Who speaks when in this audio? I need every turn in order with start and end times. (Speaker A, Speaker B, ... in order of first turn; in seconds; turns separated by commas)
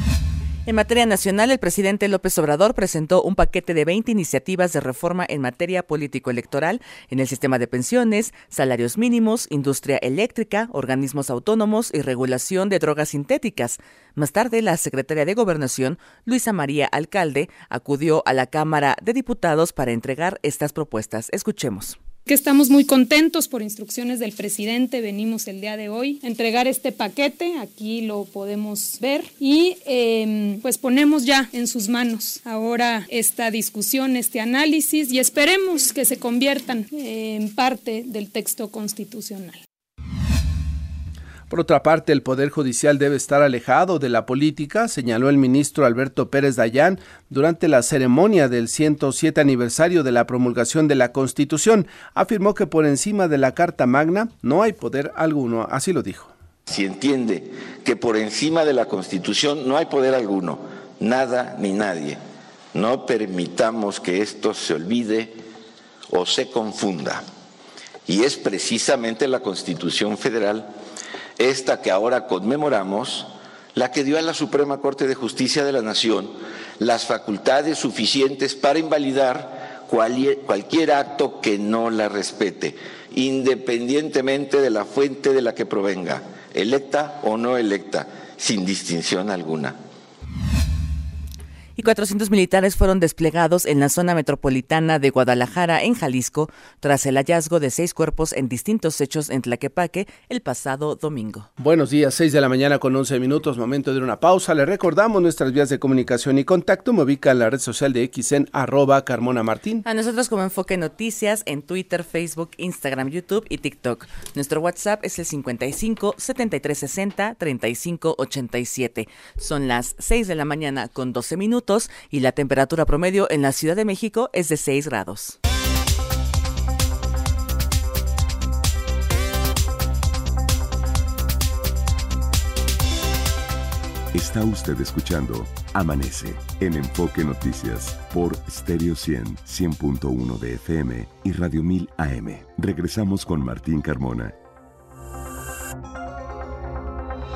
Speaker A: 0.7-22.0, Speaker B: 22.2-39.6, Speaker C: 41.5-56.3, Speaker D: 56.7-62.2, Speaker D: 62.7-65.3, Speaker D: 66.1-67.2, Speaker D: 68.1-70.7, Speaker D: 71.4-89.8, Speaker A: 91.8-101.5, Speaker C: 101.6-109.8, Speaker A: 109.8-125.4, Speaker E: 134.1-144.3